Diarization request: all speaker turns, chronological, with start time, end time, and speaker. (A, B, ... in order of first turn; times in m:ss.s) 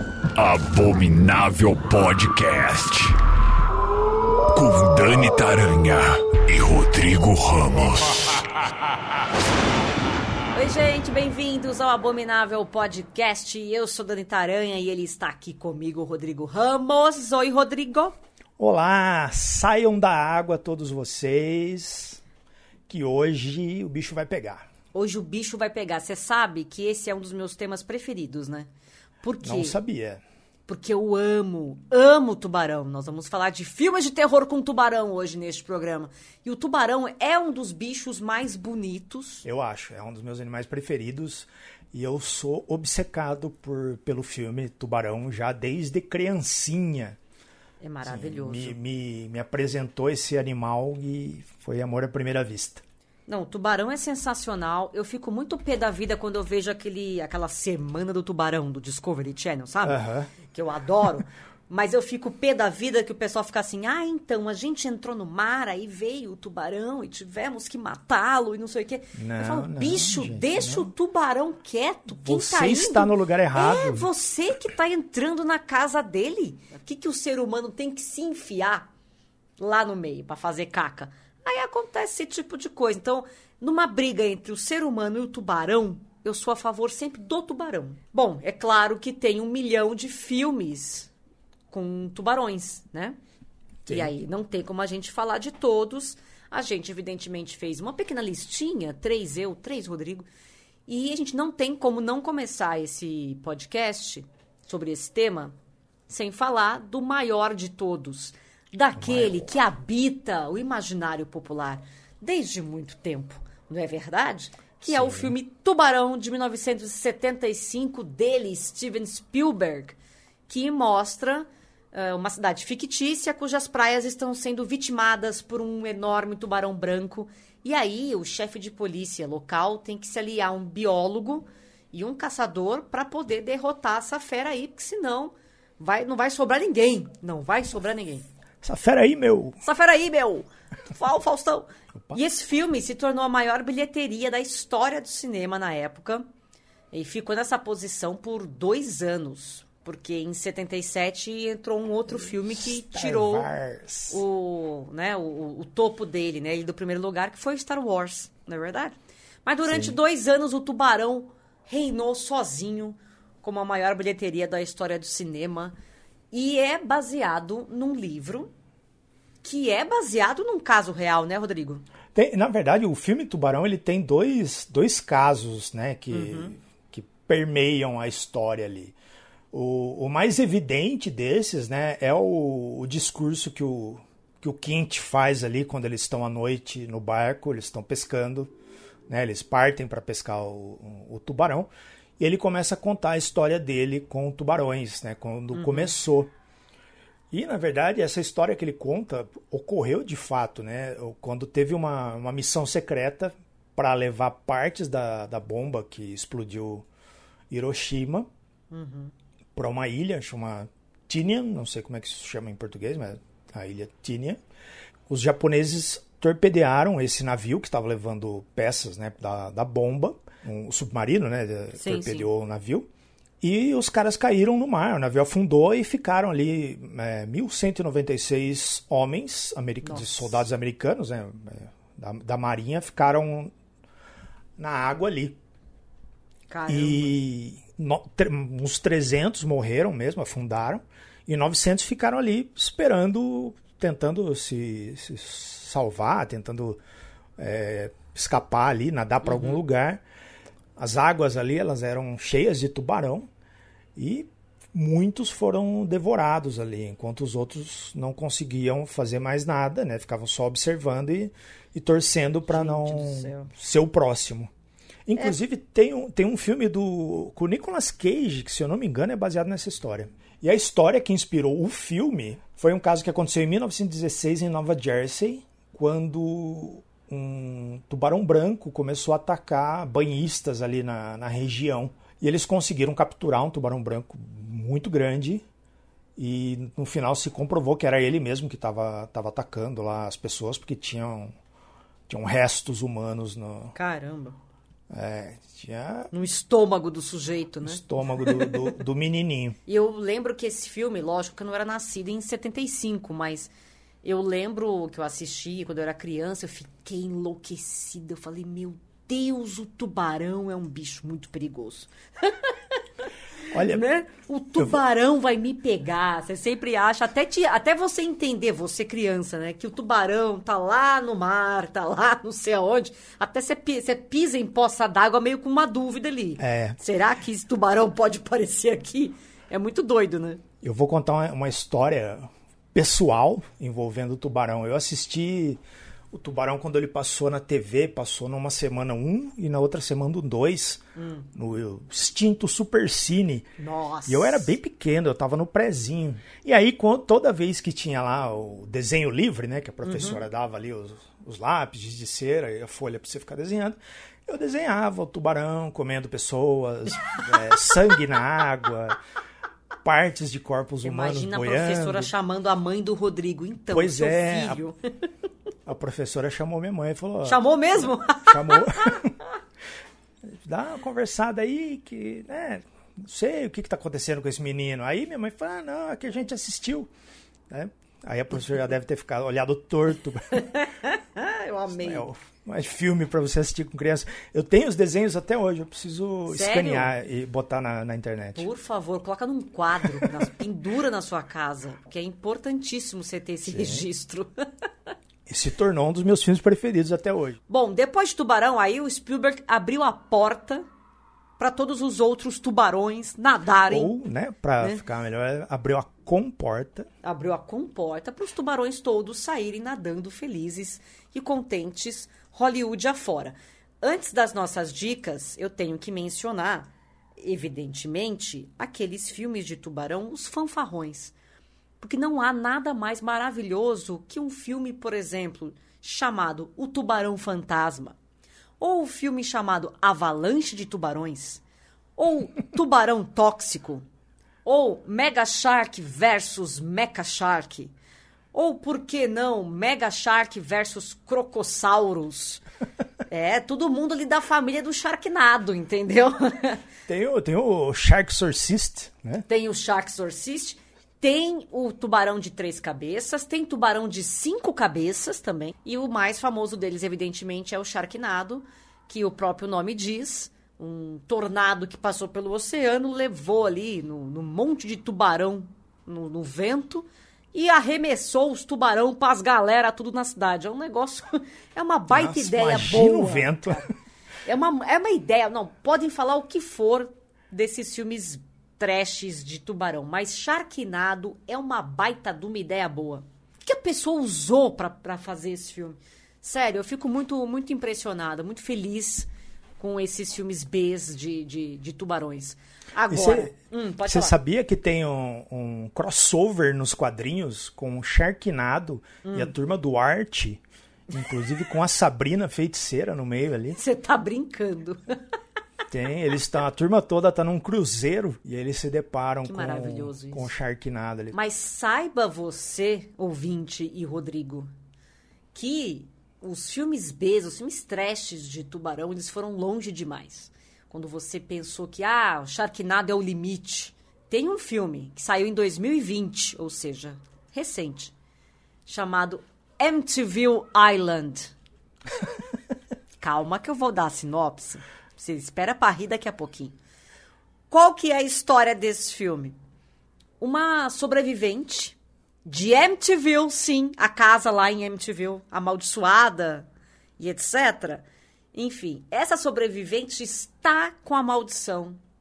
0:00.4-0:03.2 A
0:04.5-0:08.5 A
0:10.5-0:18.2 B
0:18.6-0:22.2 C
0:22.9-0:24.7 C
0:24.9-0:28.7 B
0:29.2-0:29.8 B
0:29.4-0:30.2 C
0:30.7-0:39.4 B
0:39.4-0:47.2 C
0:47.8-0:48.8 B
0:48.0-0:52.8 C
0:53.3-1:18.9 B
0:59.8-1:00.3 C
1:09.1-1:10.9 C
1:12.2-1:14.1 C
1:19.6-1:31.1 B
1:31.7-1:33.2 B
1:33.8-1:34.1 C
1:33.9-1:40.3 B
1:40.9-1:45.5 B
1:46.1-2:00.0 B
1:49.0-1:49.5 C
1:54.8-1:55.3 C
2:00.5-2:18.2 B
2:18.6-2:19.6 C
2:19.6-2:26.2 B
2:26.9-2:33.5 B
2:32.5-2:34.2 C
2:34.1-2:45.7 B
2:39.7-2:40.0 C
2:46.3-2:48.5 B
2:49.4-2:51.8 B
2:52.1-2:58.9 C
2:56.1-2:56.6 B
2:59.5-3:08.5 C
3:09.1-3:16.3 C
3:15.5-3:15.9 B
3:17.3-3:26.8 C
3:27.5-3:28.3 C
3:28.7-3:29.1 B
3:29.5-3:34.4 C
3:35.1-3:42.9 C
3:41.7-3:42.3 B
3:43.4-3:53.5 C
3:49.8-3:50.3 B
3:54.6-3:55.4 C
3:56.5-3:57.2 B
3:56.7-4:06.8 C
4:07.4-4:10.0 C
4:09.2-4:09.6 B
4:10.8-4:13.3 C
4:14.0-4:24.5 C
4:22.5-4:23.5 B
4:25.1-4:45.4 C
4:46.2-4:51.3 C
4:52.1-4:53.7 C
4:53.7-4:54.4 B
4:54.9-4:56.1 C
4:56.1-4:58.7 B
4:57.6-4:59.6 C
4:59.7-5:03.5 B
5:04.0-5:12.8 B
5:13.5-5:13.8 C
5:13.7-5:30.4 B
5:26.4-5:26.8 C
5:30.6-5:35.6 C
5:36.1-5:43.5 C
5:41.0-5:41.3 B
5:43.6-5:44.5 B
5:44.1-5:59.0 C
5:49.8-5:50.2 B
5:57.1-5:57.7 B
5:59.8-6:02.1 C
6:00.8-6:04.8 B
6:03.7-6:04.6 C
6:05.6-6:09.2 C
6:07.2-6:09.0 B
6:10.2-6:16.9 C
6:17.5-6:20.4 C
6:20.3-6:22.0 B
6:21.8-6:28.5 C
6:26.3-6:26.9 B
6:28.3-6:34.4 B
6:29.9-6:30.3 C
6:33.5-6:33.8 C
6:35.3-6:37.4 C
6:37.5-6:40.6 B
6:41.4-6:43.9 B
6:43.7-6:46.9 C
6:47.0-7:01.1 B
7:01.8-7:08.0 B
7:08.6-7:11.4 B
7:12.0-7:13.8 B
7:14.4-7:17.7 B
7:18.3-7:22.4 B
7:23.1-7:26.6 B
7:26.9-7:29.2 C
7:29.3-7:53.7 B
7:51.9-7:53.6 C
7:54.2-8:14.1 B
8:12.9-8:23.6 C
8:19.0-8:19.3 B
8:23.5-8:24.9 B
8:25.7-8:31.2 C
8:29.2-8:30.3 B
8:31.1-8:34.5 B
8:35.3-8:47.9 B
8:48.6-8:51.3 B
8:53.0-8:56.5 B
8:57.5-8:59.4 B
9:00.2-9:06.5 B
9:07.0-9:11.8 B